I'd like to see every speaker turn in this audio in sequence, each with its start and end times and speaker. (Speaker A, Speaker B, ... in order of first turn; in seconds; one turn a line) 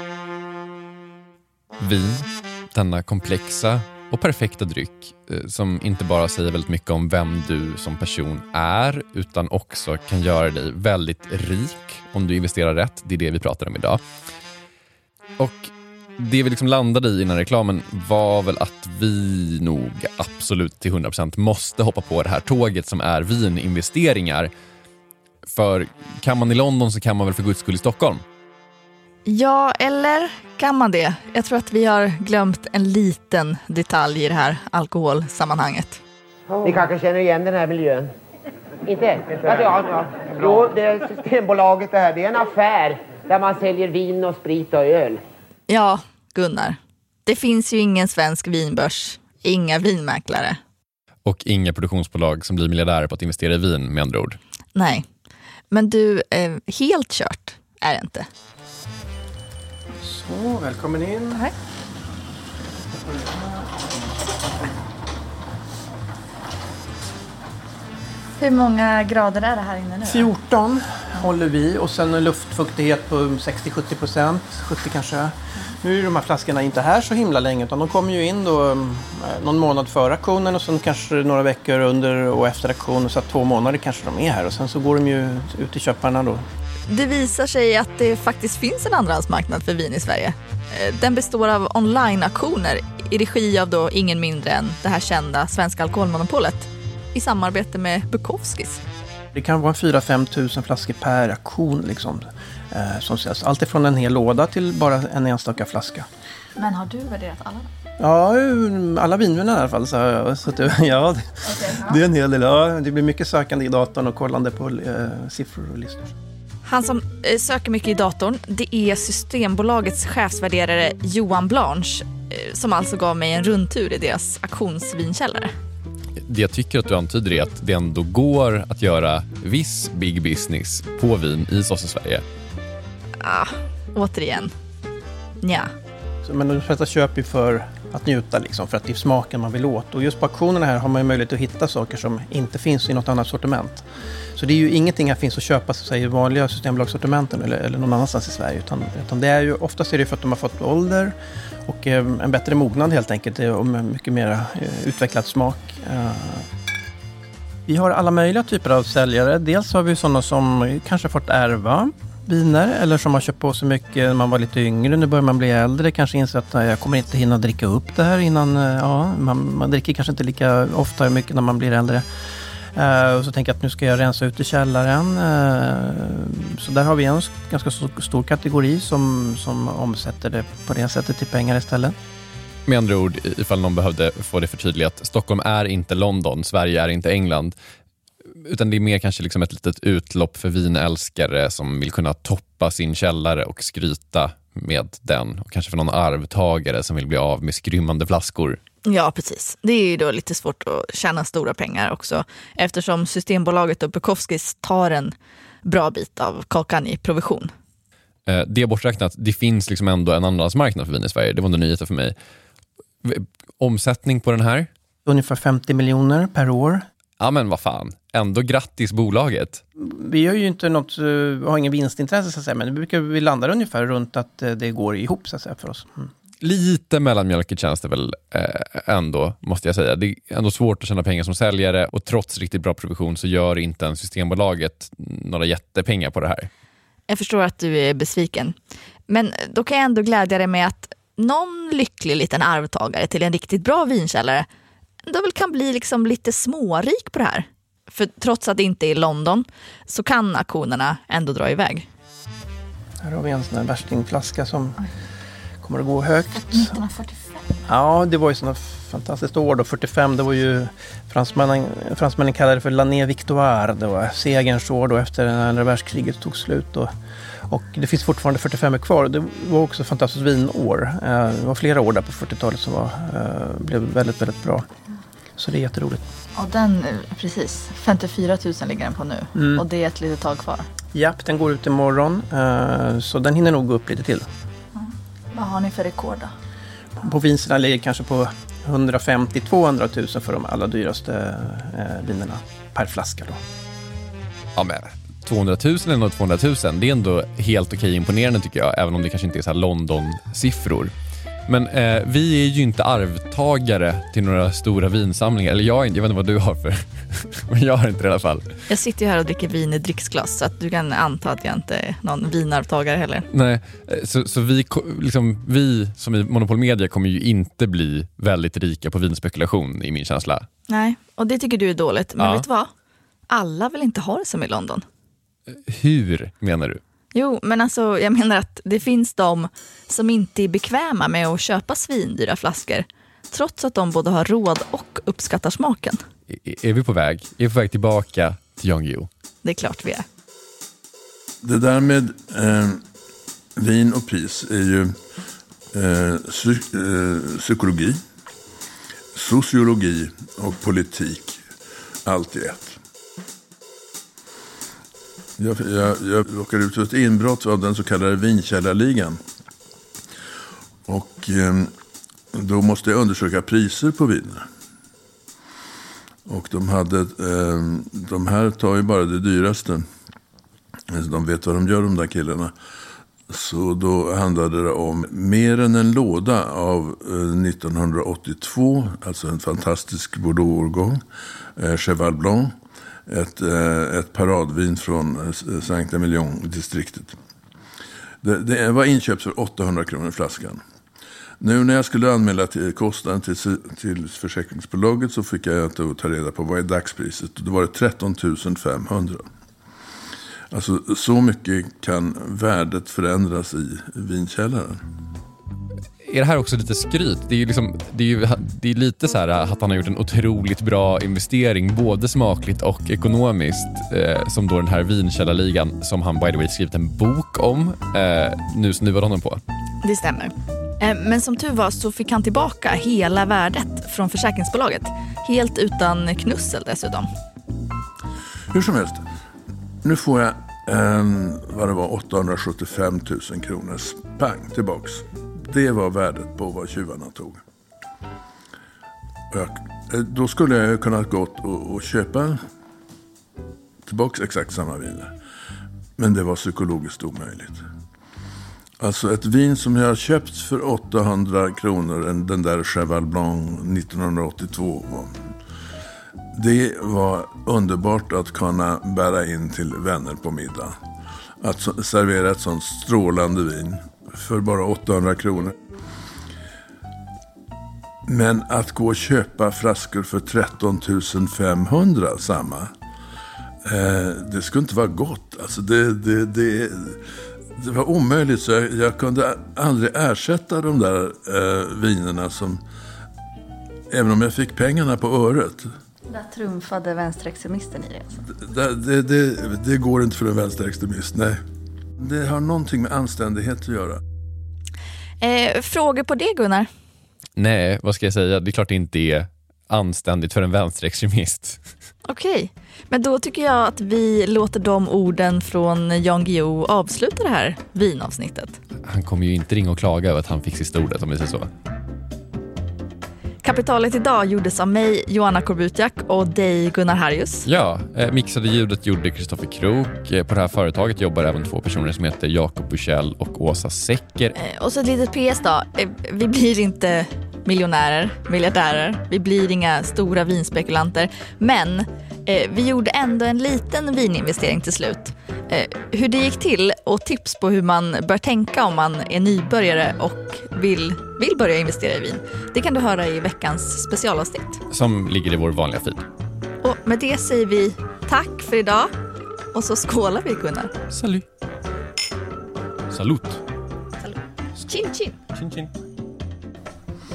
Speaker A: 1.8-14.0
Speaker A: 15.4-24.5
Speaker A: 25.5-28.2
Speaker B: 29.3-36.0
Speaker C: 36.6-38.1
Speaker C: 38.9-45.2
Speaker B: 45.7-50.6
Speaker A: 51.2-54.4
Speaker B: 54.8-55.1
Speaker B: 55.7-58.3
Speaker D: 60.0-61.4
Speaker D: 63.1-63.4
Speaker B: 68.4-70.3
Speaker D: 70.1-86.5
Speaker B: 86.9-98.8
Speaker D: 99.3-106.1
Speaker B: 106.6-107.7
Speaker D: 108.0-116.2
Speaker B: 111.5-111.9
Speaker B: 116.7-125.5
Speaker A: 126.2-132.2
Speaker B: 133.2-134.5
Speaker B: 135.4-135.7
Speaker D: 136.2-151.2
Speaker D: 151.7-156.5
Speaker D: 157.7-172.1
Speaker D: 172.8-182.0
Speaker A: 182.7-187.6
Speaker A: 188.4-198.6
Speaker B: 198.8-205.1
Speaker B: 205.7-207.5
Speaker A: 208.3-212.2
Speaker A: 213.0-214.7
Speaker D: 215.1-216.9
Speaker A: 217.2-219.6
Speaker D: 219.8-226.1
Speaker A: 226.4-236.5
Speaker B: 237.1-238.6
Speaker B: 239.1-244.5
Speaker B: 245.1-251.9
Speaker D: 253.0-254.8
Speaker D: 255.6-256.7
Speaker B: 256.3-257.6
Speaker D: 257.7-266.9
Speaker D: 267.5-274.7
Speaker D: 275.4-276.0
Speaker B: 276.4-280.7
Speaker D: 279.4-279.6
Speaker D: 280.9-284.3
Speaker B: 284.8-286.3
Speaker D: 287.0-293.4
Speaker A: 294.6-300.9
Speaker A: 301.5-308.5
Speaker B: 308.7-313.3
Speaker A: 313.3-320.5
Speaker B: 320.7-322.7
Speaker A: 322.2-322.5
Speaker B: 323.3-324.9
Speaker A: 325.5-326.8
Speaker B: 327.1-336.0
Speaker A: 336.3-339.1
Speaker B: 339.4-340.1
Speaker E: 341.4-342.8
Speaker E: 343.6-345.0
Speaker E: 345.7-348.0
Speaker E: 349.1-351.4
Speaker E: 352.1-352.8
Speaker E: 355.4-359.2
Speaker E: 360.9-361.7
Speaker E: 362.3-364.5
Speaker E: 366.3-369.9
Speaker E: 370.9-372.5
Speaker E: 373.3-381.0
Speaker E: 381.6-382.6
Speaker E: 383.1-387.2
Speaker E: 388.2-390.6
Speaker E: 391.4-399.2
Speaker E: 400.5-404.8
Speaker A: 406.0-419.4
Speaker B: 419.8-427.1
Speaker E: 428.5-429.1
Speaker E: 429.8-437.4
Speaker E: 439.3-442.4
Speaker E: 443.9-445.1
Speaker E: 446.0-447.6
Speaker E: 448.8-455.1
Speaker E: 456.4-460.8
Speaker E: 461.4-465.6
Speaker E: 468.1-472.7
Speaker E: 473.6-477.0
Speaker E: 477.6-482.6
Speaker E: 483.9-485.7
Speaker B: 486.1-488.1
Speaker E: 488.3-491.4
Speaker E: 492.0-494.0
Speaker B: 495.2-496.7
Speaker A: 497.4-501.6
Speaker B: 502.1-508.6
Speaker A: 508.8-511.5
Speaker B: 513.4-517.5
Speaker A: 517.5-524.4
Speaker B: 524.4-544.6
Speaker A: 544.7-546.0
Speaker B: 546.6-548.9
Speaker B: 549.5-550.7
Speaker A: 550.9-551.3
Speaker A: 552.9-553.4
Speaker B: 554.0-555.2
Speaker A: 555.4-555.7